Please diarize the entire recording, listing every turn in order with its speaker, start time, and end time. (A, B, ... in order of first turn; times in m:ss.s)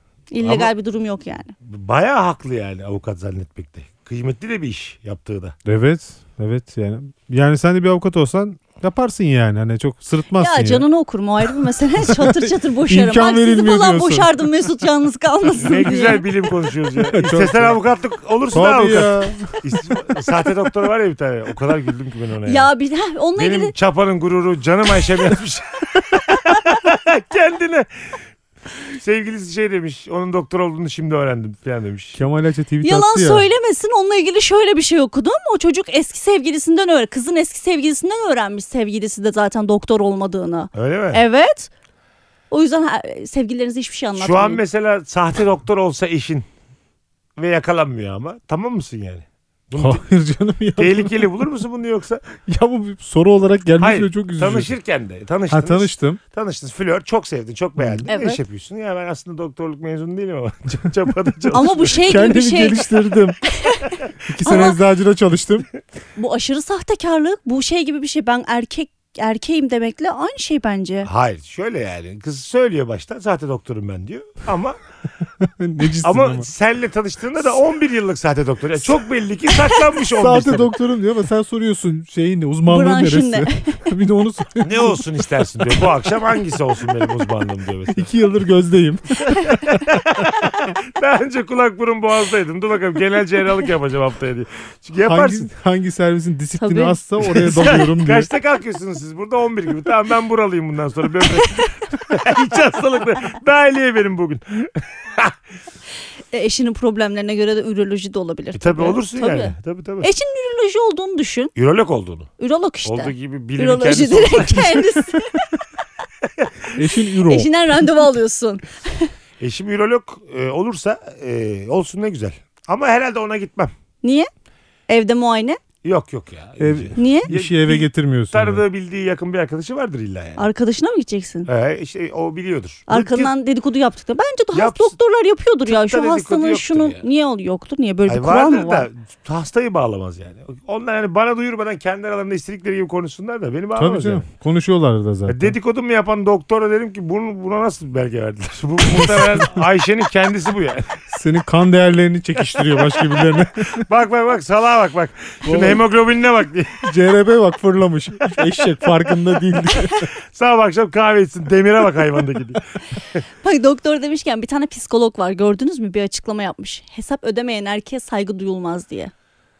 0:00.3-0:01.5 A
0:00.4-0:00.7 B
0:01.6-0:05.6 B
0:05.7-0:10.8 C
0:10.4-0:16.2 A
0:12.0-0:14.4 C
0:15.6-0:22.7 B
0:17.1-0:17.8 C
0:18.5-0:20.1 C
0:22.5-0:23.7 A
0:23.4-0:28.2 B
0:28.9-0:32.2 B
0:32.2-0:33.5 C
0:32.8-0:41.7 A
0:40.8-0:41.2 B
0:42.5-0:44.6 A
0:44.2-0:46.5 B
0:47.4-0:50.0 B
0:49.8-0:51.3 C
0:50.8-0:52.2 B
0:52.4-0:54.7 C
0:53.8-1:01.9 B
0:55.5-0:56.2 C
0:57.8-0:58.1 C
0:58.1-0:58.4 A
1:01.5-1:04.8 A
1:01.5-1:03.4 C
1:04.3-1:05.7 C
1:06.2-1:11.1 A
1:11.0-1:14.8 B
1:15.4-1:16.5 C
1:16.0-1:20.7 B
1:20.2-1:25.1 C
1:22.7-1:23.8 A
1:24.6-1:28.1 B
1:27.9-1:30.5 C
1:29.4-1:29.6 A
1:29.8-1:35.5 B
1:35.0-1:38.3 C
1:36.6-1:37.0 A
1:37.2-1:45.3 B
1:46.3-1:51.5 A
1:48.5-1:50.1 B
1:51.6-1:52.3 B
1:52.4-1:55.5 A
1:52.8-1:55.1 B
1:56.7-1:57.5 C
1:57.3-1:59.1 A
1:59.4-2:03.7 B
2:04.0-2:04.3 A
2:04.9-2:05.6 A
2:05.8-2:10.5 B
2:06.6-2:08.6 C
2:07.0-2:07.3 A
2:10.4-2:11.5 A
2:11.5-2:13.3 B
2:12.9-2:18.9 A
2:14.5-2:15.0 B
2:15.7-2:17.0 B
2:18.1-2:24.2 B
2:23.8-2:25.6 C
2:25.3-2:31.0 B
2:29.0-2:29.4 C
2:31.1-2:33.9 C
2:33.8-2:36.8 B
2:35.4-2:35.8 C
2:36.8-2:40.1 C
2:40.3-2:43.2 B
2:43.4-2:49.1 A